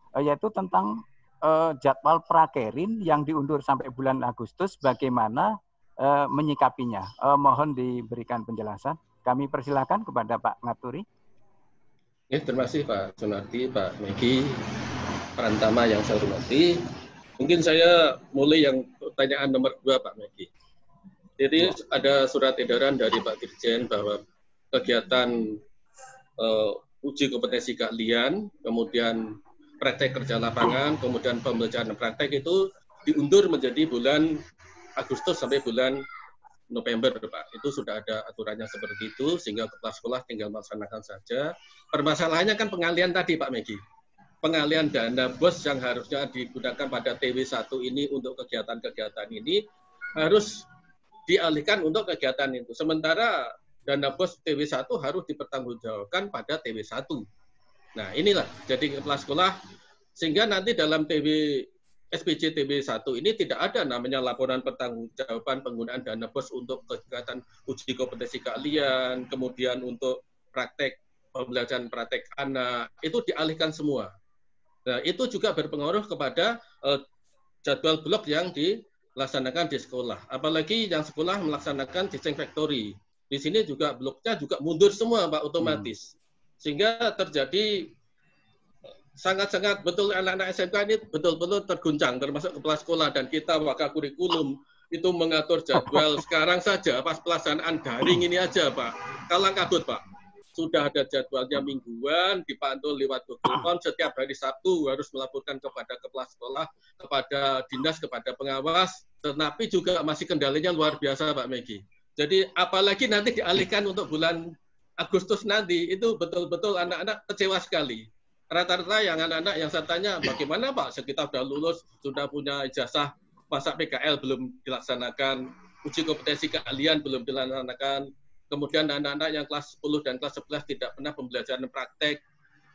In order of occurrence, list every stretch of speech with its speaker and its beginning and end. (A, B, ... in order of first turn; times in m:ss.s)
0:00.2-0:11.0 A
0:12.3-0:14.6 B
0:15.4-0:16.8 B
0:17.4-0:20.5 B
0:21.4-0:24.2 B
0:24.7-0:25.6 B
0:26.4-0:34.4 B
0:35.0-0:36.0 B
0:36.7-0:43.8 B
0:44.4-0:49.6 B
0:50.2-0:50.6 B
0:51.3-0:57.2 B
0:58.0-0:59.6 B
1:00.2-1:14.1 B
1:14.8-1:17.0 B
1:17.6-1:27.9 B
1:25.6-1:25.9 A
1:29.2-1:40.0 B
1:35.8-1:36.1 A
1:40.6-1:54.4 B
1:55.0-2:12.2 B